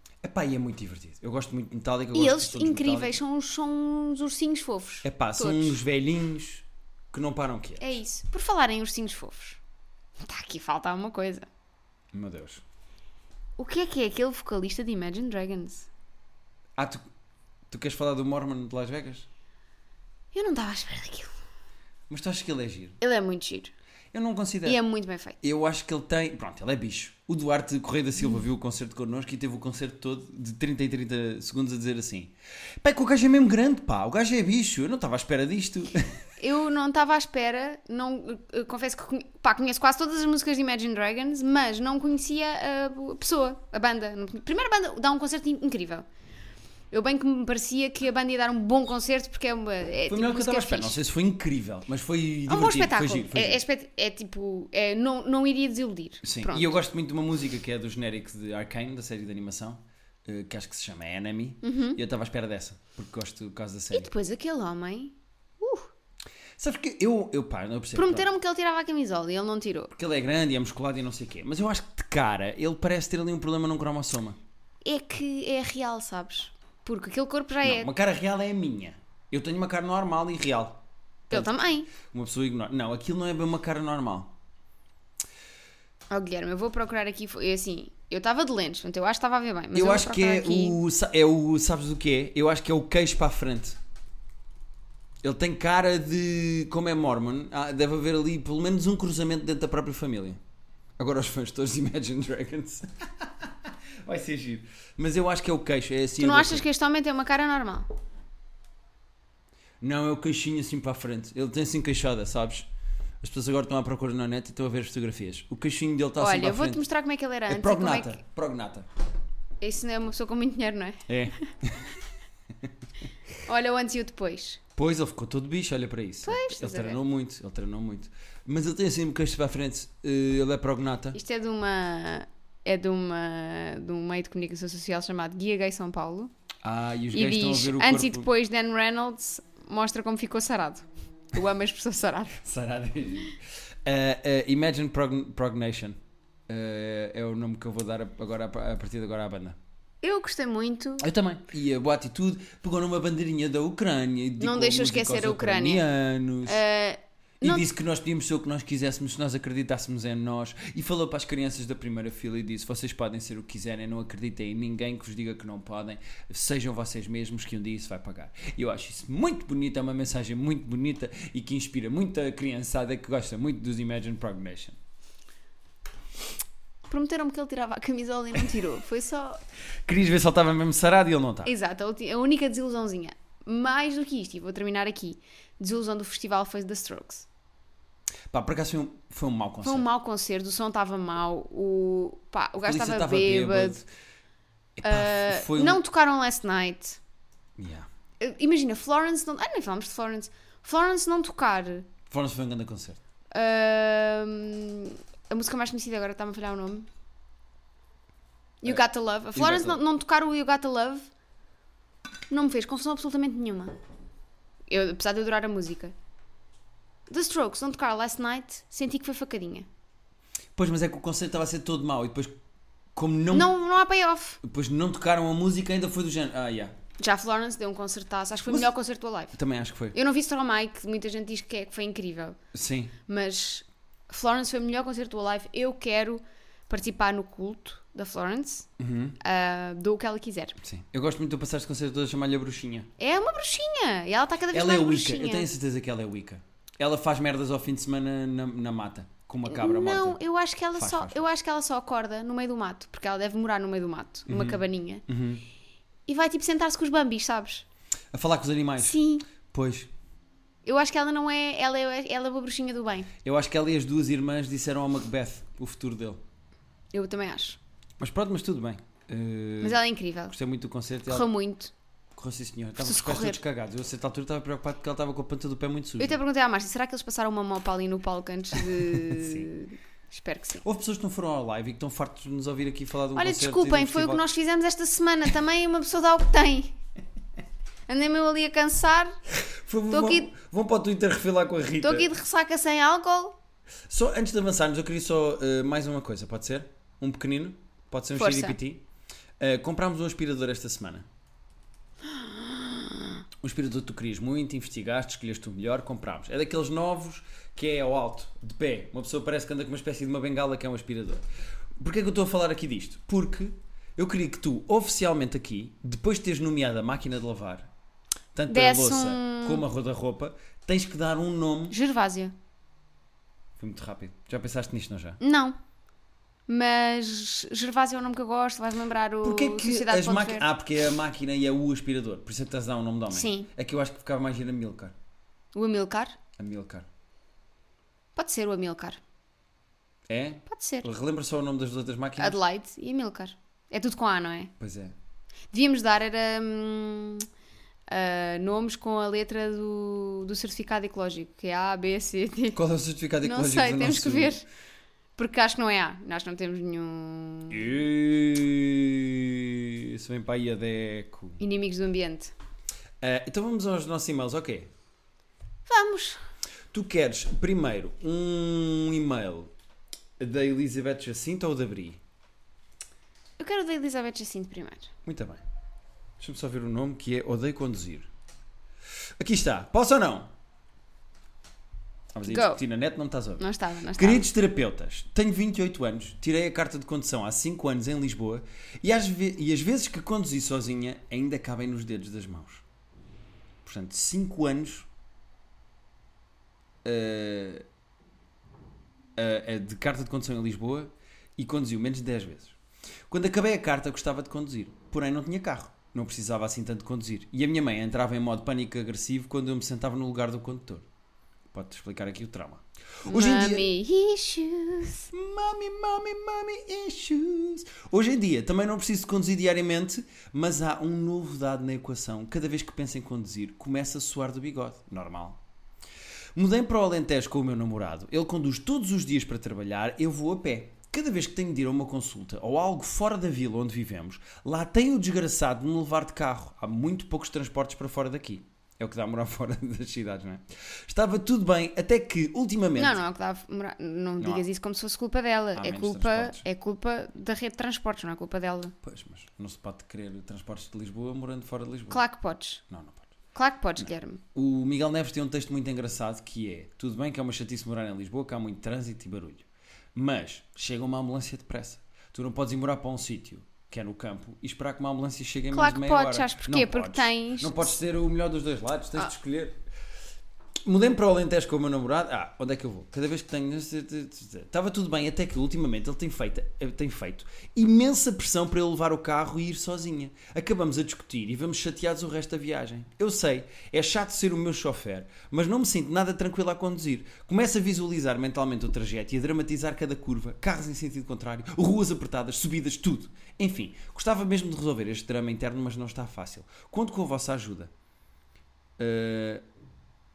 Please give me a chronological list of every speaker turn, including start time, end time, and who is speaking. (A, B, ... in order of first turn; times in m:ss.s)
0:00.2-0:03.2 A
0:02.1-0:05.8 B
0:05.0-0:07.8 A
0:07.8-0:09.6 B
0:10.2-0:11.5 B
0:12.1-0:12.6 A
0:13.6-0:15.9 B
0:16.8-0:17.0 A
0:17.7-0:19.2 A
0:20.3-0:21.3 B
0:22.1-0:23.0 A
0:23.0-0:23.7 B
0:24.1-0:24.8 A
0:24.6-0:25.4 B
0:25.4-0:36.0 A
0:36.4-0:46.1 B
0:46.9-0:51.0 B
0:50.1-0:53.6 A
0:52.5-0:56.8 B
0:56.2-1:04.1 A
1:01.6-1:02.0 B
1:03.9-1:05.9 B
1:06.6-1:08.3 A
1:07.9-1:09.9 B
1:09.9-1:14.4 A
1:14.8-1:17.9 B
1:17.6-1:24.3 A
1:21.3-1:21.9 B
1:26.1-1:30.8 B
1:29.7-1:33.8 A
1:35.2-1:40.4 A
1:41.0-1:46.6 A
1:46.2-1:47.9 B
1:49.8-1:52.7 A
1:53.2-1:56.8 A
1:56.2-1:58.2 B
1:57.5-1:58.9 A
1:59.6-2:01.4 B
2:01.1-2:02.0 A
2:03.4-2:04.6 B
2:04.8-2:11.2 A
2:06.2-2:07.0 B
2:11.1-2:16.3 B
2:16.6-2:18.3 A
2:17.1-2:22.4 B
2:22.4-2:26.0 A
2:26.5-2:29.6 A
2:30.0-2:31.1 B
2:31.0-2:36.6 A
2:34.4-2:35.8 B
2:36.4-2:37.7 B
2:37.4-2:54.8 A
2:56.9-2:59.4 B
2:59.8-3:01.5 A
3:01.4-3:07.3 B
3:08.3-3:09.9 A
3:09.6-3:13.8 B
3:12.6-3:13.8 A
3:14.8-3:15.8 A
3:14.8-3:17.0 B
3:17.6-3:17.9 A
3:18.2-3:21.9 B
3:22.1-3:23.0 A
3:23.3-3:26.9 B
3:28.6-3:31.1 B
3:29.3-3:29.8 A
3:32.3-3:33.7 B
3:34.7-3:35.9 B
3:37.1-3:39.6 B
3:40.5-3:42.3 A
3:42.9-3:43.5 A
3:43.3-3:44.4 B
3:44.4-3:46.7 A
3:47.0-3:49.4 B
3:49.3-3:50.0 A
3:49.9-3:52.4 B
3:52.5-3:52.9 A
3:53.0-3:58.7 B
3:58.8-3:59.2 A
3:59.2-4:00.6 B
4:00.6-4:02.9 A
4:03.0-4:05.5 B
4:04.5-4:10.2 A
4:09.5-4:15.0 B
4:10.7-4:11.2 A
4:14.3-4:15.4 A
4:16.1-4:17.6 B
4:18.1-4:19.0 A
4:18.8-4:19.2 B
4:19.5-4:19.9 A
4:20.6-4:23.1 B
4:23.2-4:26.2 A
4:26.9-4:27.6 B
4:28.0-4:31.3 A
4:29.6-4:30.3 B
4:31.1-4:31.7 B
4:32.2-4:36.2 A
4:32.8-4:33.4 B
4:36.0-4:40.6 B
4:38.6-4:39.5 A
4:40.6-4:44.2 A
4:43.1-4:46.7 B
4:47.9-4:49.2 B
4:49.3-4:52.1 A
4:49.9-4:50.3 B
4:51.8-4:53.4 B
4:53.9-4:58.8 A
4:58.2-4:58.6 B
4:59.4-5:01.1 A
5:02.1-5:03.2 B
5:03.4-5:11.2 A
5:11.8-5:17.7 A
5:18.3-5:21.8 A
5:18.5-5:19.6 B
5:21.7-5:22.3 B
5:23.6-5:25.2 A
5:25.2-5:25.6 B
5:26.5-5:30.4 B
5:29.2-5:34.9 A
5:33.1-5:33.5 B
5:35.5-5:36.2 B
5:36.4-5:36.9 A
5:38.2-5:39.0 B
5:40.1-5:42.4 A
5:40.5-5:40.9 B
5:42.2-5:44.5 B
5:44.6-5:44.9 A
5:45.5-5:47.3 B
5:47.9-5:52.6 B
5:52.5-5:54.4 A
5:53.2-5:54.4 B
5:55.2-5:57.7 B
5:57.5-6:01.4 A
6:01.4-6:02.3 B
6:03.0-6:04.7 A
6:05.7-6:06.2 B
6:06.7-6:09.5 A
6:10.2-6:12.0 A
6:13.4-6:14.9 B
6:15.0-6:15.4 A
6:16.2-6:18.1 A
6:19.2-6:20.3 A
6:22.1-6:32.6 A
6:22.2-6:22.6 B
6:23.4-6:24.3 B
6:33.6-6:34.9 A
6:36.8-6:37.6 A
6:39.2-6:42.6 A
6:43.1-6:50.8 A
6:51.5-6:53.7 A
6:53.1-6:55.1 B
6:55.1-7:05.4 A
7:06.3-7:23.0 A
7:22.8-7:28.7 B
7:25.6-7:26.4 A
7:28.8-7:32.0 A
7:31.9-7:32.6 B
7:32.7-7:33.1 A
7:33.3-7:34.2 B
7:33.8-7:49.6 A
7:45.5-7:47.7 B
7:50.6-8:17.7 A
8:18.8-8:19.4 A